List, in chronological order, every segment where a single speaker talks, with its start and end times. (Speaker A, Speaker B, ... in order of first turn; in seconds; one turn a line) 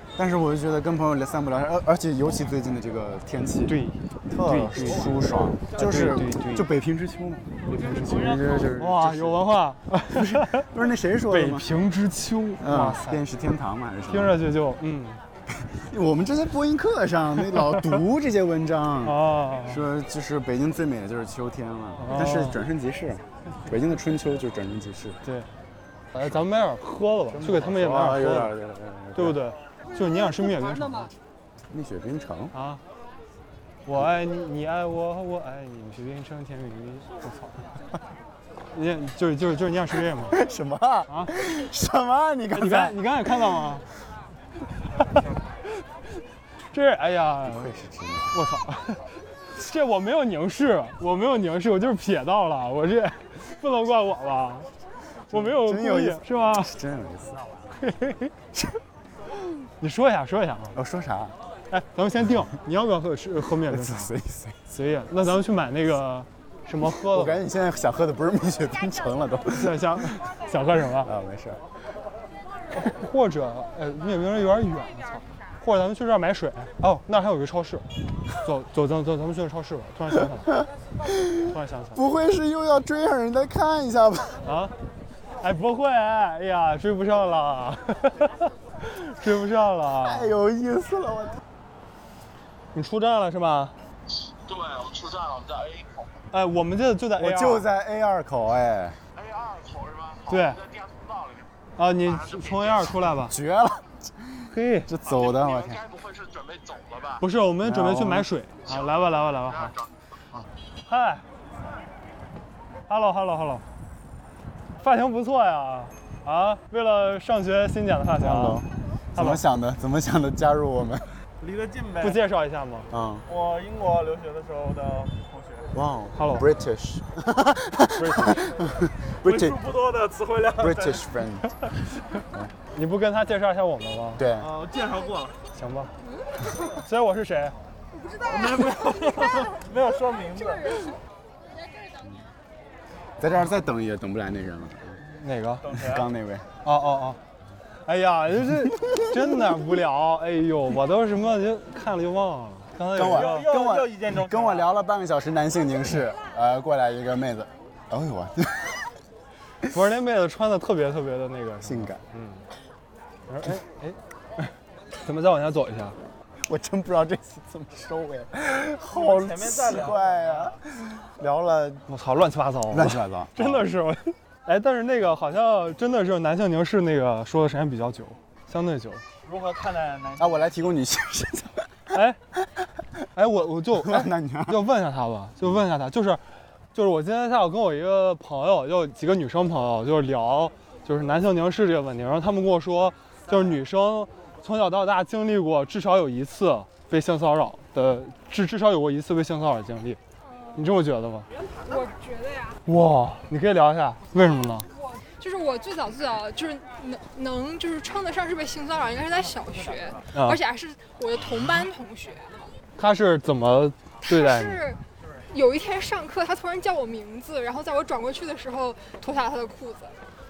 Speaker A: 0.1-11.7
Speaker B: 3.7-6.7
Speaker C: 7.6-8.7
Speaker B: 7.7-10.7
Speaker B: 11.2-13.2
Speaker A: 12.6-14.4
Speaker B: 14.1-15.2
Speaker A: 15.6-25.2
Speaker B: 19.0-19.8
Speaker B: 22.0-22.6
Speaker B: 25.2-25.5
Speaker B: 26.1-28.5
Speaker A: 27.3-29.4
Speaker B: 29.1-31.1
Speaker A: 31.7-32.5
Speaker B: 32.5-32.8
Speaker B: 33.9-37.6
Speaker B: 38.7-40.4
Speaker A: 40.3-43.1
Speaker B: 42.5-43.8
Speaker B: 44.8-45.2
Speaker B: 46.7-47.7
Speaker A: 47.4-48.4
Speaker B: 48.3-54.7
Speaker B: 55.3-56.7
Speaker A: 55.3-57.6
Speaker B: 57.8-58.3
Speaker A: 58.5-58.8
Speaker B: 59.8-60.8
Speaker A: 60.7-61.4
Speaker B: 61.7-64.1
Speaker A: 63.6-64.6
Speaker B: 64.7-67.4
Speaker A: 66.8-70.1
Speaker B: 69.5-71.1
Speaker A: 71.0-71.7
Speaker B: 72.7-80.6
Speaker A: 81.0-84.4
Speaker B: 81.4-82.0
Speaker B: 84.4-84.7
Speaker B: 85.4-90.3
Speaker A: 90.0-91.4
Speaker B: 92.7-93.7
Speaker D: 94.2-96.2
Speaker B: 96.3-97.7
Speaker A: 97.2-99.0
Speaker D: 99.1-102.9
Speaker B: 100.3-100.6
Speaker B: 101.8-103.4
Speaker A: 103.3-105.8
Speaker B: 104.5-104.9
Speaker D: 105.0-107.2
Speaker B: 107.2-109.7
Speaker A: 107.6-108.3
Speaker D: 108.7-109.9
Speaker B: 110.3-111.2
Speaker B: 112.9-113.7
Speaker B: 114.8-119.4
Speaker A: 118.2-121.2
Speaker C: 121.4-122.2
Speaker B: 122.0-122.9
Speaker A: 122.9-123.3
Speaker C: 123.3-125.7
Speaker A: 125.7-129.6
Speaker B: 126.1-126.5
Speaker B: 127.9-128.5
Speaker C: 128.4-131.1
Speaker A: 130.6-131.6
Speaker B: 132.7-134.3
Speaker A: 134.2-134.5
Speaker C: 134.3-135.4
Speaker B: 135.5-135.9
Speaker B: 136.7-137.6
Speaker C: 138.2-141.0
Speaker A: 143.2-145.0
Speaker B: 145.0-145.8
Speaker C: 145.6-146.1
Speaker A: 145.8-146.5
Speaker B: 146.6-147.2
Speaker B: 147.8-153.5
Speaker A: 148.9-149.2
Speaker A: 152.9-158.8
Speaker C: 152.9-154.7
Speaker B: 159.7-162.5
Speaker A: 161.6-162.0
Speaker B: 163.3-166.0
Speaker A: 166.4-171.9
Speaker C: 168.8-170.6
Speaker B: 171.9-179.0
Speaker A: 172.7-173.7
Speaker C: 179.2-180.5
Speaker A: 180.2-181.9
Speaker B: 181.9-182.2
Speaker B: 183.1-200.0
Speaker A: 183.7-184.7
Speaker E: 200.2-200.7
Speaker B: 200.6-201.3
Speaker E: 201.7-202.6
Speaker B: 202.7-204.7
Speaker E: 204.6-212.5
Speaker B: 210.1-210.4
Speaker B: 212.8-214.6
Speaker E: 214.0-220.0